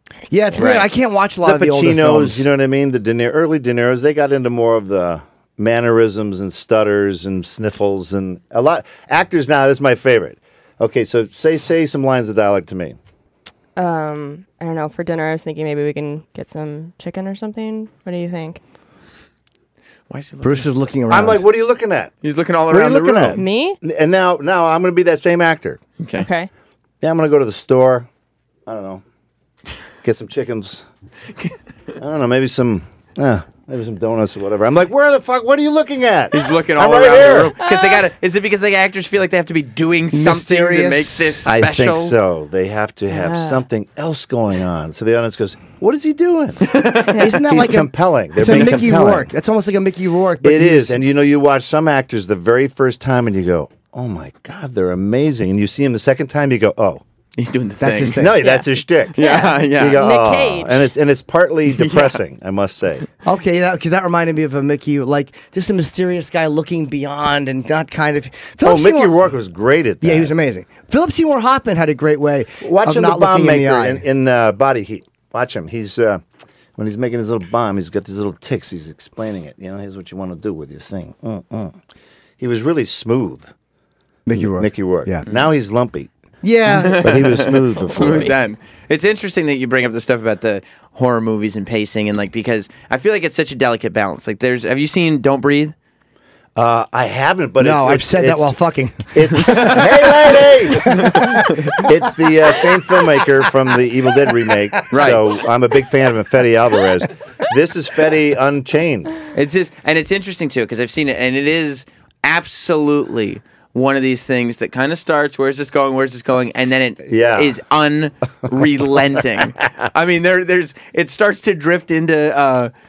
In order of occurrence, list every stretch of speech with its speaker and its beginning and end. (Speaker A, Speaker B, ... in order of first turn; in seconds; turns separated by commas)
Speaker A: 0.3-2.5, Speaker B: 0.6-0.9, Speaker C: 1.4-13.0, Speaker D: 13.8-18.6, Speaker B: 20.1-20.7, Speaker A: 20.4-21.4, Speaker C: 21.1-22.1, Speaker B: 22.2-23.4, Speaker C: 22.7-25.8, Speaker D: 23.4-23.8, Speaker B: 26.0-26.3, Speaker D: 26.1-26.5, Speaker C: 27.0-28.1, Speaker C: 28.6-29.0, Speaker C: 30.0-30.9, Speaker C: 32.0-37.5, Speaker B: 36.3-42.1, Speaker D: 37.6-38.0, Speaker A: 40.1-41.5, Speaker C: 41.5-46.9, Speaker D: 43.1-43.6, Speaker B: 46.7-47.1, Speaker D: 47.1-47.4, Speaker A: 47.2-51.0, Speaker C: 47.4-49.3, Speaker C: 50.4-57.0, Speaker B: 57.4-58.4, Speaker A: 57.8-58.4, Speaker C: 58.1-63.1, Speaker D: 58.4-60.9, Speaker B: 59.1-60.0, Speaker B: 61.7-62.2, Speaker A: 63.2-69.2, Speaker C: 68.6-70.3, Speaker A: 70.0-74.0, Speaker C: 72.6-76.2, Speaker C: 76.8-81.8, Speaker C: 82.4-83.5, Speaker A: 84.3-85.2, Speaker C: 84.4-86.1, Speaker A: 86.4-87.3, Speaker B: 86.7-95.8, Speaker C: 87.0-88.3, Speaker C: 96.6-98.6, Speaker A: 97.6-101.9, Speaker C: 99.1-109.1, Speaker B: 101.1-101.5, Speaker B: 104.9-105.2, Speaker B: 109.3-122.7, Speaker C: 117.0-117.5